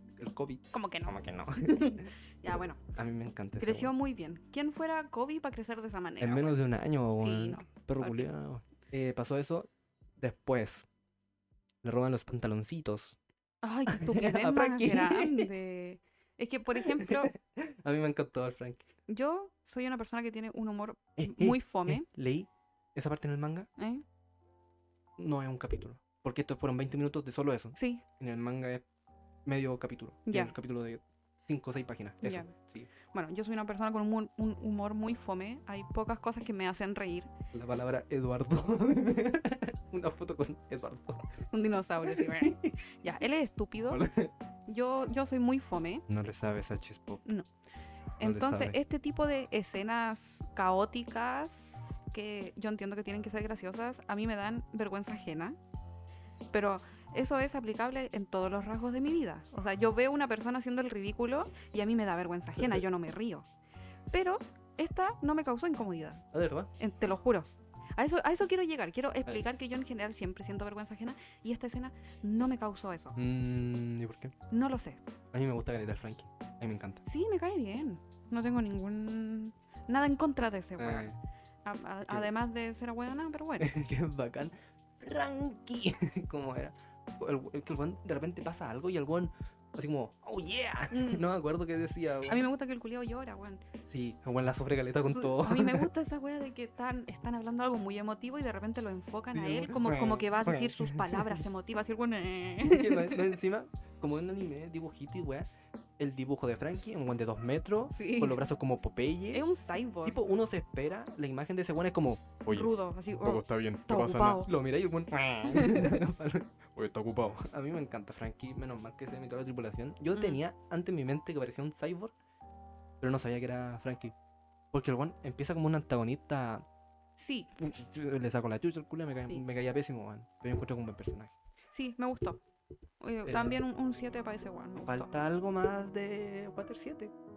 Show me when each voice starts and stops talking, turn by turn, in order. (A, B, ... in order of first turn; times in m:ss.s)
0:00.2-0:03.9 A
0:00.7-0:02.8 B
0:03.6-0:06.6 B
0:06.2-0:10.9 A
0:07.2-0:08.2 B
0:11.8-0:13.2 A
0:13.6-0:17.3 B
0:13.9-0:15.5 A
0:16.8-0:18.9 A
0:19.1-0:22.1 B
0:21.2-0:23.7 A
0:23.8-0:24.0 B
0:25.2-0:28.9 A
0:27.8-0:28.0 B
0:29.5-0:32.9 A
0:30.3-0:30.5 B
0:32.2-0:37.3 B
0:37.5-0:41.4 A
0:41.5-0:44.0 B
0:42.0-0:42.8 A
0:43.9-0:44.3 A
0:44.7-0:46.0 B
0:46.1-0:47.2 A
0:48.2-0:55.6 B
0:48.2-0:48.8 A
0:56.5-1:03.5 B
1:04.1-1:13.2 B
1:06.3-1:06.7 A
1:13.2-1:14.4 A
1:14.5-1:15.0 B
1:15.3-1:17.0 A
1:17.1-1:21.1 B
1:20.8-1:21.2 A
1:21.6-1:23.8 B
1:23.6-1:32.4 A
1:30.9-1:31.2 B
1:32.3-1:33.6 B
1:33.9-1:35.9 A
1:35.0-1:43.3 B
1:39.3-1:41.4 A
1:42.6-1:45.5 A
1:46.0-1:49.4 A
1:47.9-1:48.4 B
1:49.3-1:50.2 B
1:50.0-2:02.1 A
1:52.5-1:54.5 B
1:55.5-1:56.0 B
2:00.1-2:00.4 B
2:03.0-2:04.1 A
2:04.7-2:06.6 A
2:07.2-2:07.5 B
2:07.6-2:11.3 A
2:11.7-2:12.4 B
2:13.0-2:15.1 B
2:13.3-2:13.6 A
2:14.8-2:17.1 A